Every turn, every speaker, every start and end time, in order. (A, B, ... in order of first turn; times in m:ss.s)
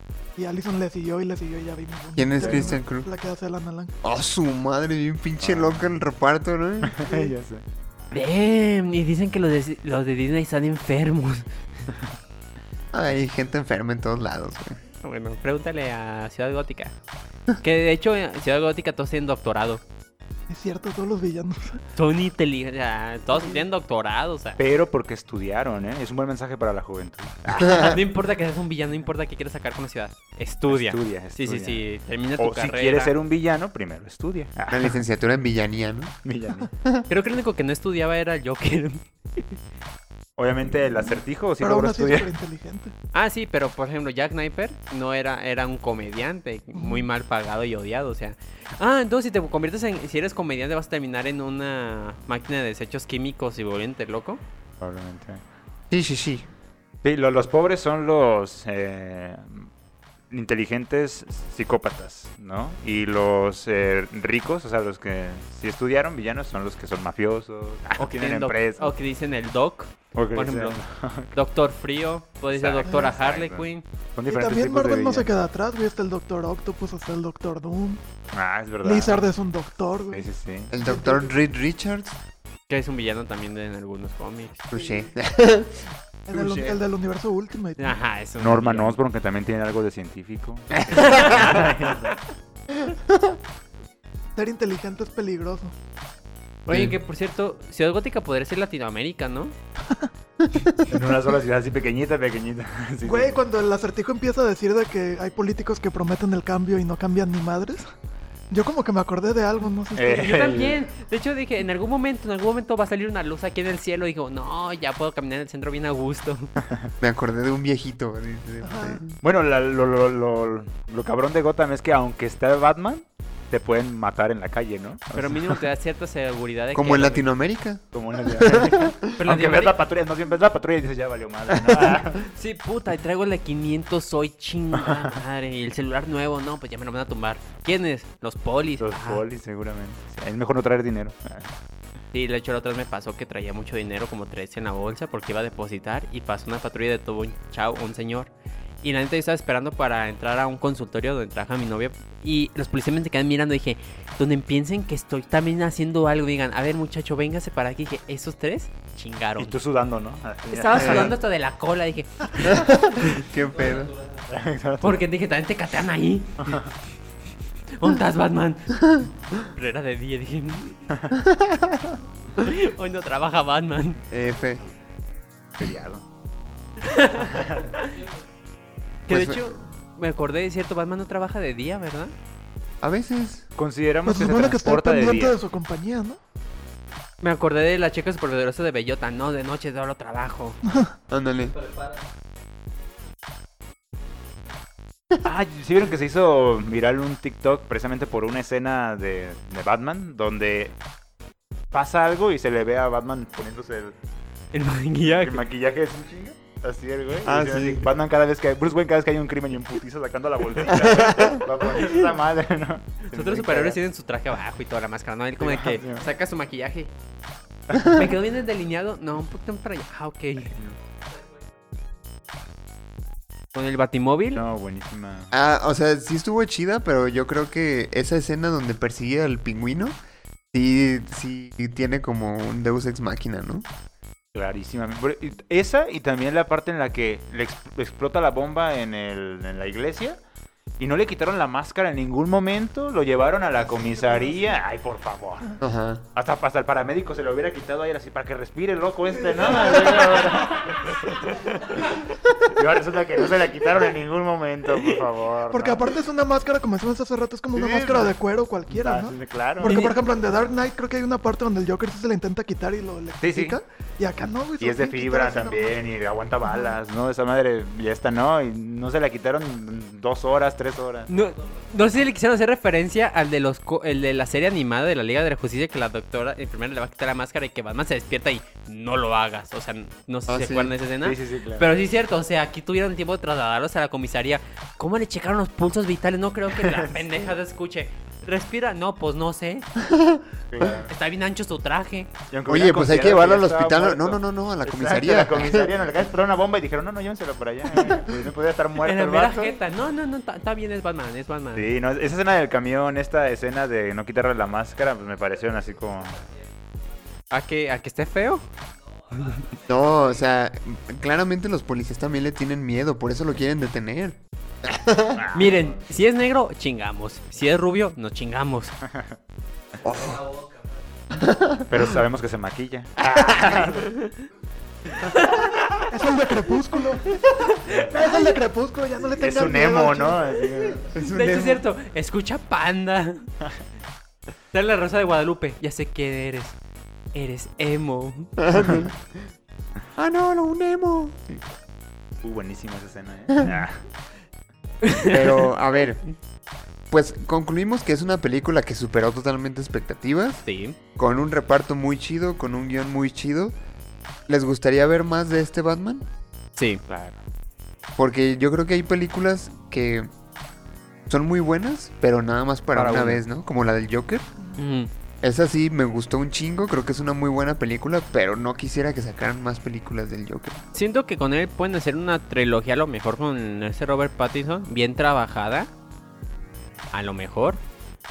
0:00.4-0:03.9 A
0:02.2-0:03.1 B
0:02.4-0:02.8 C
0:04.0-0:07.0 B
0:05.4-0:06.0 C
0:06.8-0:07.6 C
0:07.0-0:07.3 A
0:08.1-0:11.4 D
0:12.9-0:14.8 B
0:15.0-0:16.9 D
0:17.6-0:19.8 D
0:20.5-0:21.8 A
0:22.0-0:24.6 D
0:23.3-0:23.6 A
0:24.6-0:28.0 C
0:27.7-0:33.1 D
0:30.7-0:31.8 C
0:32.4-0:35.0 C
0:34.7-0:36.1 B
0:36.2-0:36.7 C
0:37.1-0:39.6 D
0:40.4-0:42.3 C
0:41.6-0:42.9 A
0:43.1-0:54.4 D
0:46.7-0:47.1 A
0:54.8-0:55.4 C
0:55.9-0:56.5 B
0:57.0-0:59.7 C
1:00.3-1:08.9 C
1:08.0-1:10.8 D
1:10.1-1:11.3 C
1:11.3-1:13.8 D
1:12.5-1:15.3 C
1:12.9-1:13.1 A
1:14.3-1:18.0 A
1:18.3-1:19.3 C
1:18.8-1:21.3 A
1:20.1-1:20.7 C
1:20.7-1:22.2 B
1:22.7-1:24.7 D
1:24.7-1:25.9 B
1:26.3-1:28.0 A
1:26.3-1:26.8 C
1:27.8-1:29.0 D
1:28.4-1:32.2 C
1:31.0-1:31.6 D
1:34.4-1:35.7 A
1:36.7-1:39.5 D
1:40.8-1:43.4 C
1:43.0-1:47.9 A
1:48.5-1:50.5 A
1:50.0-1:50.8 C
1:50.1-1:56.6 D
1:56.6-1:56.9 C
1:57.0-1:59.2 B
1:58.6-1:59.0 A
1:59.2-2:05.6 C
2:05.1-2:07.3 D
2:06.7-2:09.1 B
2:07.9-2:12.3 C
2:09.2-2:09.8 D
2:12.2-2:19.2 D
2:18.8-2:21.5 C
2:22.1-2:28.3 D
2:28.8-2:39.6 D
2:39.4-2:41.1 C
2:40.5-2:43.2 D
2:40.7-2:41.1 B
2:42.4-2:43.9 B
2:44.3-2:45.0 C
2:44.8-2:46.6 D
2:47.8-2:48.8 D
2:49.4-2:50.8 D
2:51.2-2:51.9 B
2:52.4-2:54.0 D
2:54.1-2:54.6 B
2:55.6-2:56.0 C
2:56.8-2:58.0 D
2:57.3-2:57.6 C
2:59.1-3:02.1 D
2:59.1-2:59.4 B
3:02.8-3:03.4 B
3:03.6-3:05.4 C
3:04.0-3:06.2 A
3:07.2-3:10.6 D
3:10.6-3:10.9 A
3:11.1-3:11.6 B
3:15.2-3:20.8 C
3:21.7-3:23.9 C
3:24.5-3:25.4 D
3:25.0-3:33.8 C
3:27.2-3:27.9 B
3:30.9-3:31.4 B
3:31.6-3:32.1 D
3:33.0-3:36.9 D
3:35.4-3:36.0 C
3:37.7-3:40.5 D
3:43.5-3:44.4 D
3:44.3-3:45.3 C
3:45.3-3:50.0 B
3:50.5-3:53.6 B
3:54.3-4:00.2 C
4:00.8-4:05.5 C
4:03.7-4:04.4 A
4:05.6-4:06.0 B
4:06.2-4:15.9 C
4:09.4-4:10.4 A
4:15.5-4:25.8 A
4:17.6-4:18.1 C
4:18.7-4:19.9 C
4:19.6-4:19.9 D
4:23.2-4:23.6 C
4:24.6-4:31.1 C
4:26.4-4:26.8 A
4:31.1-4:49.6 D
4:40.3-4:40.7 B
4:41.0-4:41.7 C
4:46.5-4:47.2 C
4:49.8-4:50.8 B
4:50.5-4:50.9 C
4:50.9-4:52.1 D
4:52.3-4:59.5 C
4:52.5-4:55.7 B
4:58.8-5:01.6 D
5:01.5-5:06.2 C
5:07.3-5:08.4 D
5:09.7-5:15.2 B
5:15.2-5:15.7 C
5:15.3-5:18.7 D
5:18.8-5:19.2 C
5:19.8-5:20.3 B
5:21.1-5:21.6 B
5:21.7-5:24.0 C
5:23.2-5:23.5 B
5:23.8-5:24.1 D
5:25.1-5:25.4 D
5:25.9-5:27.2 A
5:27.7-5:28.2 C
5:27.9-5:30.4 A
5:29.2-5:30.9 C
5:30.9-5:31.6 B
5:31.0-5:33.3 D
5:34.5-5:36.6 D
5:37.1-5:38.3 D
5:38.4-5:39.0 B
5:40.0-5:41.4 B
5:42.2-5:43.8 C
5:44.8-5:45.5 D
5:45.1-5:46.0 B
5:46.9-5:50.4 B
5:50.4-5:50.8 D
5:51.0-5:53.6 B
5:54.3-5:56.0 B
5:56.6-5:57.1 D
5:58.0-6:00.1 B
6:01.1-6:04.2 B
6:02.7-6:03.2 D
6:04.6-6:04.9 D
6:05.2-6:10.6 B
6:10.7-6:15.7 D
6:16.9-6:17.6 D